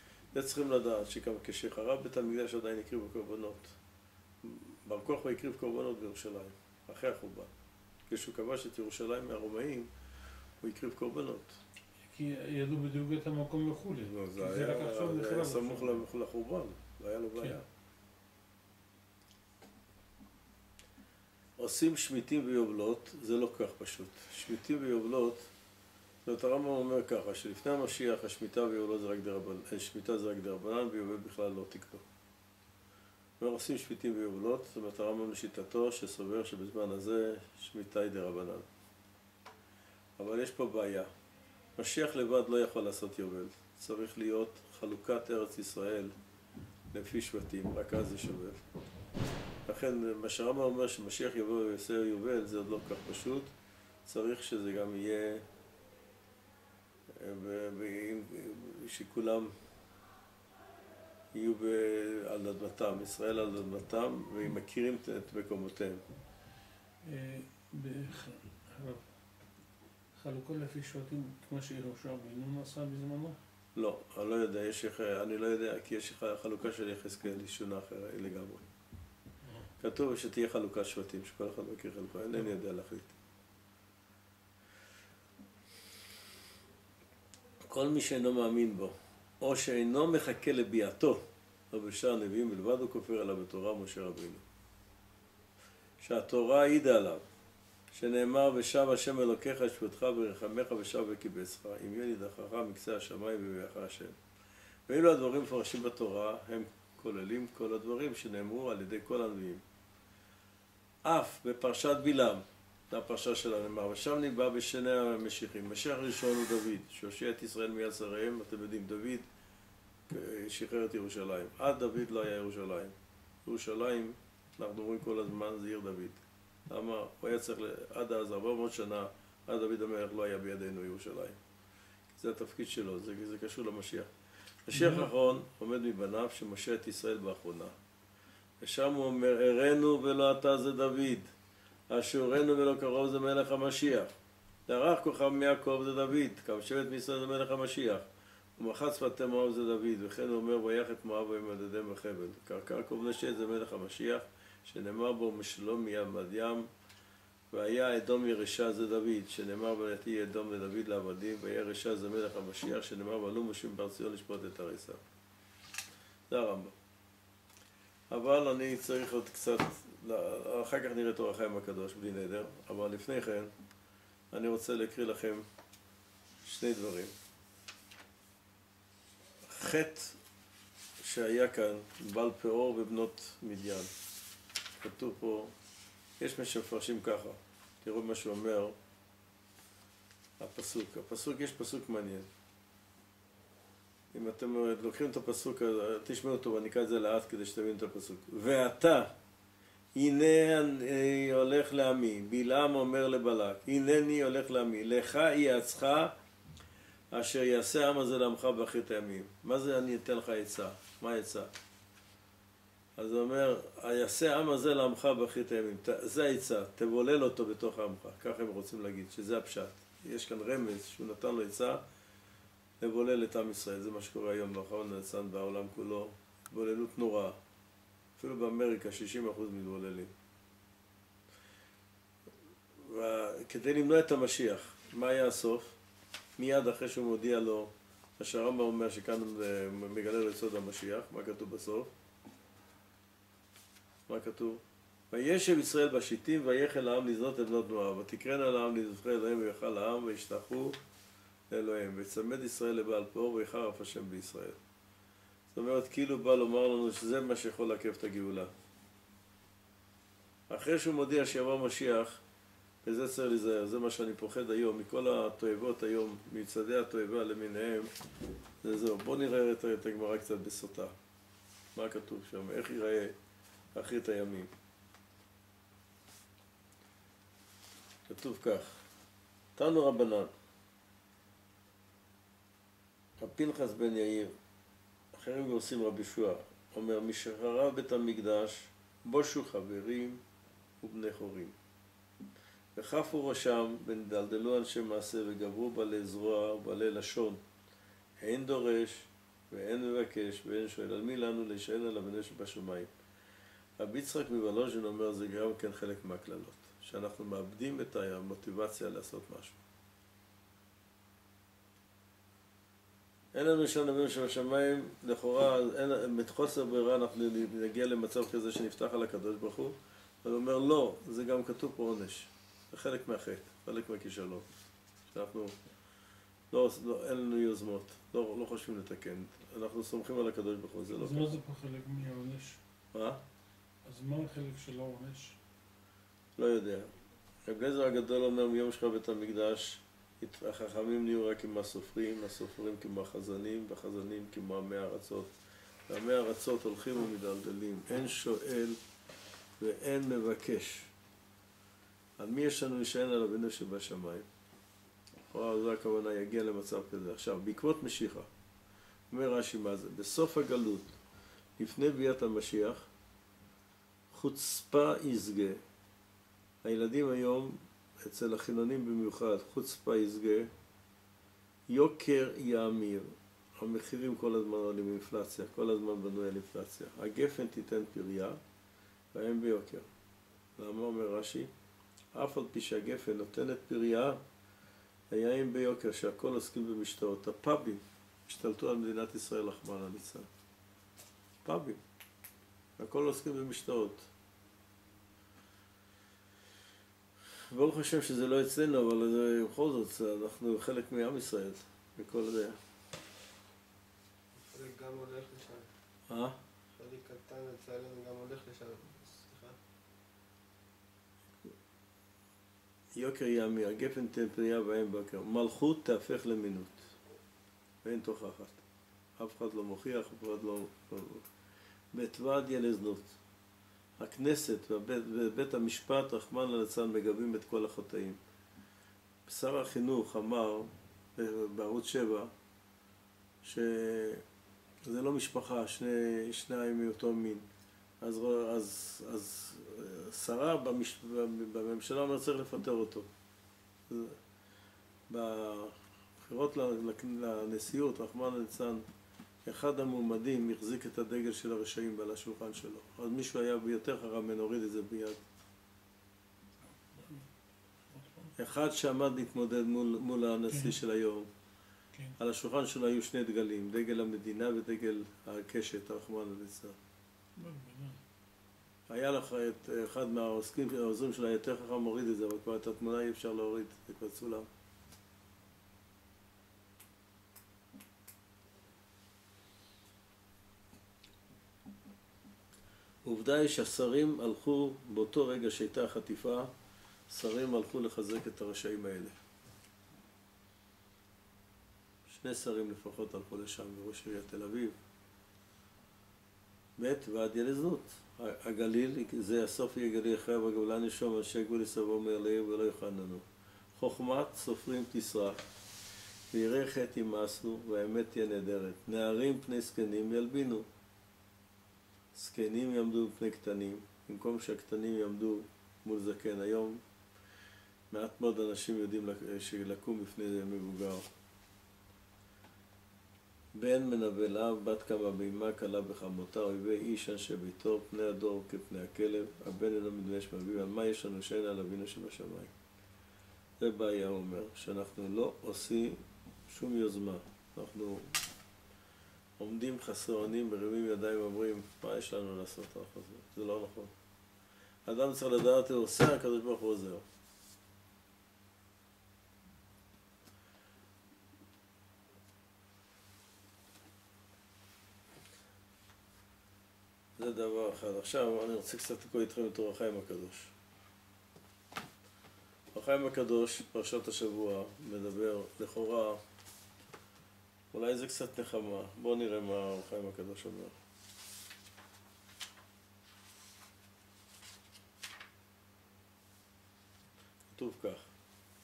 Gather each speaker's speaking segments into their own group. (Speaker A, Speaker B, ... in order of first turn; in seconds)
Speaker A: 0.3-3.8, 4.4-7.5, 8.1-9.9, 10.6-11.6, 14.0-17.6, 21.6-25.5, 26.2-32.0, 33.4-38.6, 40.2-41.1, 41.8-46.1, 46.9-48.6, 49.6-53.5, 54.0-55.4, 57.1-59.5, 61.3-66.0, 73.8-78.6, 79.8-83.1, 87.6-94.4, 96.0-97.2, 97.9-104.2, 104.9-109.6, 111.0-119.2, 120.1-131.4, 132.1-134.1, 134.7-137.7, 138.6-141.3, 141.9-144.1, 144.7-148.1, 148.6-156.7, 157.5-165.0, 166.3-166.7, 168.1-173.5, 174.3-175.4, 176.4-177.1, 179.4-180.2, 181.0-183.9, 184.8-185.5, 186.2-188.8, 190.4-192.3, 194.1-199.1, 199.9-206.1, 207.1-211.5, 213.0-221.8, 222.8-227.4, 228.2-230.1, 232.8-235.8, 236.4-241.9, 244.1-250.8, 251.5-254.6, 255.5-258.5, 260.5-262.2, 262.8-267.9, 268.6-270.9, 271.7-273.1, 273.7-274.5, 278.1-278.8, 279.6-280.3, 283.2-284.3, 285.1-290.2, 290.8-291.5, 292.8-297.4, 298.2-302.9, 303.8-309.6, 313.3-324.5, 325.1-325.5, 326.5-331.3, 332.9-333.2, 336.4-336.9, 337.4-345.3, 345.9-348.8, 349.6-350.9, 352.2-354.3, 355.3-358.3, 359.1-361.0, 361.6-362.9, 364.1-365.6, 366.6-370.5, 371.7-378.4, 379.1-379.9, 380.6-381.5, 382.1-384.2, 385.1-390.3, 391.4-391.8, 392.8-394.1, 397.5-402.6, 406.1-406.4, 412.9-416.9, 417.8-418.6, 419.2-421.3, 421.9-423.2, 424.0-428.2, 429.3-432.3, 433.4-434.2, 434.8-437.4, 438.0-443.1, 443.9-444.2, 445.1-448.8, 449.4-455.2, 458.4-461.3, 462.2-466.8, 468.9-474.5, 483.0-486.5, 487.1-489.1, 492.1-494.8, 496.8-503.2, 503.8-505.4, 506.3-510.6, 512.1-516.8, 517.9-521.1, 523.5-532.5, 533.6-538.2, 539.4-543.9, 544.9-547.0, 557.2-560.5, 562.7-566.2, 567.7-570.7, 577.5-578.1
Speaker B: 12.0-16.0, 67.0-69.1, 70.1-73.4, 134.7-135.1, 331.0-332.6, 333.8-335.4, 456.9-457.3, 457.9-458.3, 460.5-460.8, 467.4-468.0
Speaker C: 404.3-405.7, 406.8-409.6